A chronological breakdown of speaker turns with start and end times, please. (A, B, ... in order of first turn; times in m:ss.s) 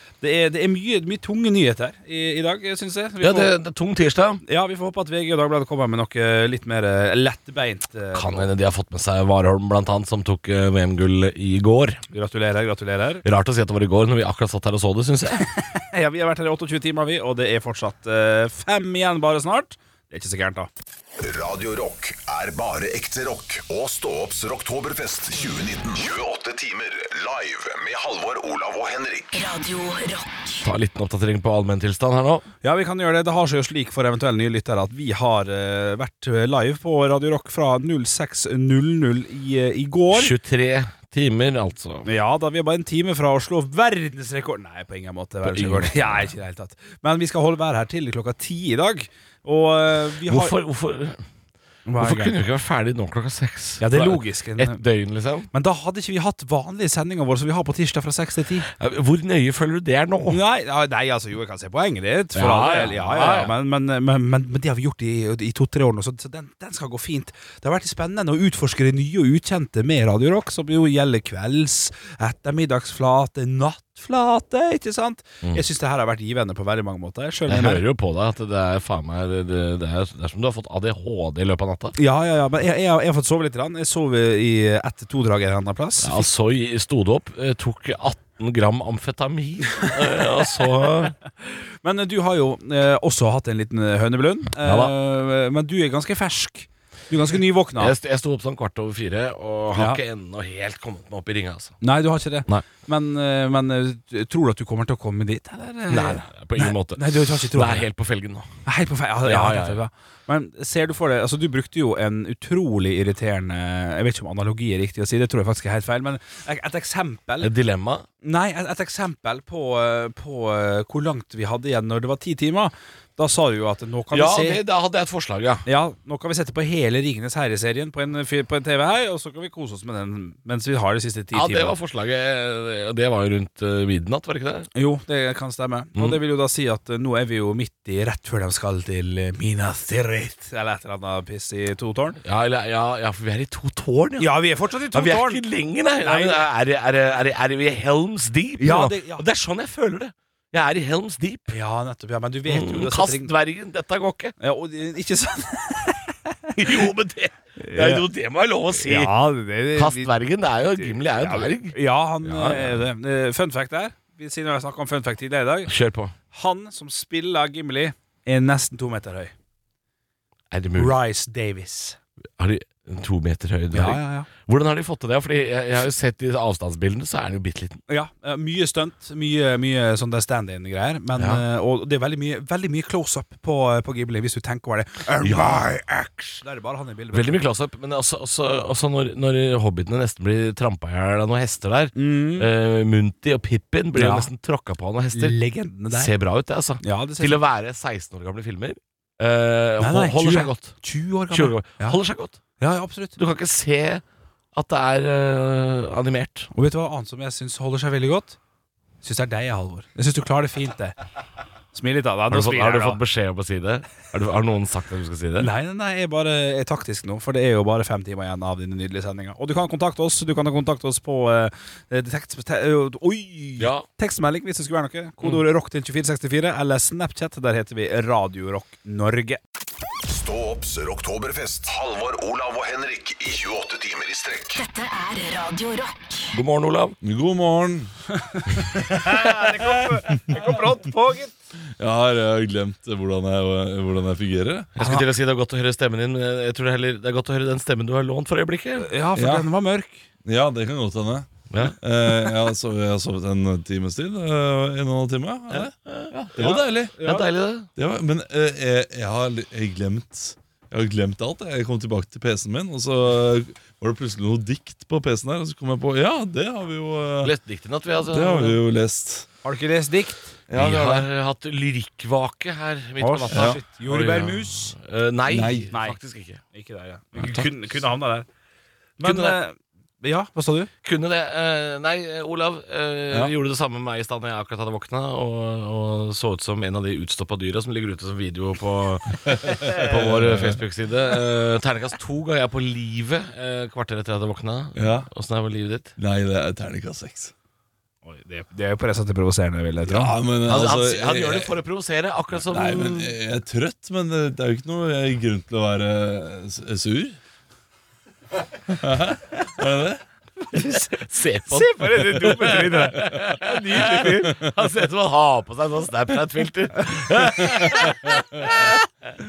0:00.2-0:03.5 A
0:03.2-0:04.4 B
0:04.4-0:08.5 A
0:08.1-0:12.0 B
0:12.1-0:13.2 A
0:13.2-0:15.4 B
0:15.7-0:20.7 A
0:21.2-0:29.4 C
0:29.3-0:30.6 D
0:30.6-0:32.4 B
0:32.6-0:40.3 A
0:40.1-0:42.1 B
0:42.0-0:50.5 A
0:45.4-0:46.3 B
0:50.3-0:51.2 B
0:51.8-0:52.4 A
0:52.0-0:55.5 B
0:53.8-0:54.8 A
0:55.5-0:58.7 A
0:58.7-1:00.4 B
1:00.3-1:17.8 A
1:02.3-1:03.5 B
1:17.5-1:21.9 B
1:22.0-1:26.3 A
1:26.0-1:31.2 B
1:31.4-1:37.9 A
1:34.6-1:34.9 B
1:37.8-1:41.8 B
1:41.8-1:47.8 A
1:45.9-1:48.6 B
1:48.6-1:57.5 A
1:49.2-1:49.8 B
1:57.4-1:58.0 B
1:58.2-2:04.6 A
2:04.1-2:05.6 B
2:05.6-2:11.8 A
2:11.3-2:14.7 B
2:14.7-2:22.2 A
2:22.2-2:24.4 B
2:24.2-2:25.4 A
2:24.9-2:31.5 B
2:26.0-2:26.4 A
2:28.6-2:29.2 A
2:31.5-2:33.3 A
2:32.4-2:34.3 B
2:34.4-2:36.3 A
2:36.6-2:39.1 B
2:37.6-2:38.0 A
2:38.8-2:40.1 A
2:39.7-2:42.8 B
2:40.8-2:45.7 A
2:45.6-2:46.1 B
2:46.3-2:49.3 A
2:50.5-2:51.0 B
2:50.8-2:52.0 A
2:52.4-2:57.8 B
2:53.7-2:54.3 A
2:57.9-3:07.4 A
3:01.2-3:01.4 B
3:05.2-3:05.6 B
3:07.1-3:15.4 B
3:12.0-3:12.5 A
3:13.9-3:14.3 A
3:15.1-3:16.1 A
3:15.9-3:22.4 B
3:16.8-3:17.4 A
3:19.8-3:22.0 A
3:22.6-3:23.2 A
3:23.2-3:24.0 B
3:24.5-3:26.5 B
3:26.5-3:28.4 A
3:29.0-3:31.0 A
3:31.7-3:33.0 A
3:32.3-3:35.5 B
3:35.4-3:49.4 A
3:43.6-3:43.9 B
3:50.1-3:54.6 C
3:54.5-3:56.3 D
3:56.3-3:57.0 B
3:57.0-3:57.9 E
3:58.3-4:01.3 A
3:59.0-4:00.5 E
4:01.8-4:04.7 E
4:04.7-4:08.9 B
4:04.8-4:05.0 A
4:08.8-4:10.0 A
4:09.2-4:09.5 E
4:10.2-4:11.3 E
4:11.5-4:11.8 B
4:11.8-4:17.0 E
4:15.5-4:17.7 B
4:16.4-4:17.2 A
4:17.8-4:27.3 E
4:27.2-4:28.6 B
4:28.1-4:29.3 E
4:29.4-4:30.3 A
4:30.5-4:31.1 E
4:30.5-4:36.4 B
4:33.0-4:34.7 A
4:33.3-4:33.6 E
4:35.3-4:35.7 E
4:35.7-4:36.0 A
4:36.5-4:38.2 A
4:37.2-4:37.6 B
4:39.0-4:40.7 A
4:39.0-4:39.4 B
4:40.8-4:55.9 B
4:49.6-4:50.6 E
4:54.7-4:55.1 E
4:56.0-4:57.3 E
4:58.0-5:00.1 A
4:59.9-5:01.5 E
5:00.4-5:03.1 B
5:02.5-5:07.2 E
5:08.7-5:10.0 E
5:10.5-5:14.3 A
5:10.9-5:18.7 B
5:13.1-5:14.5 E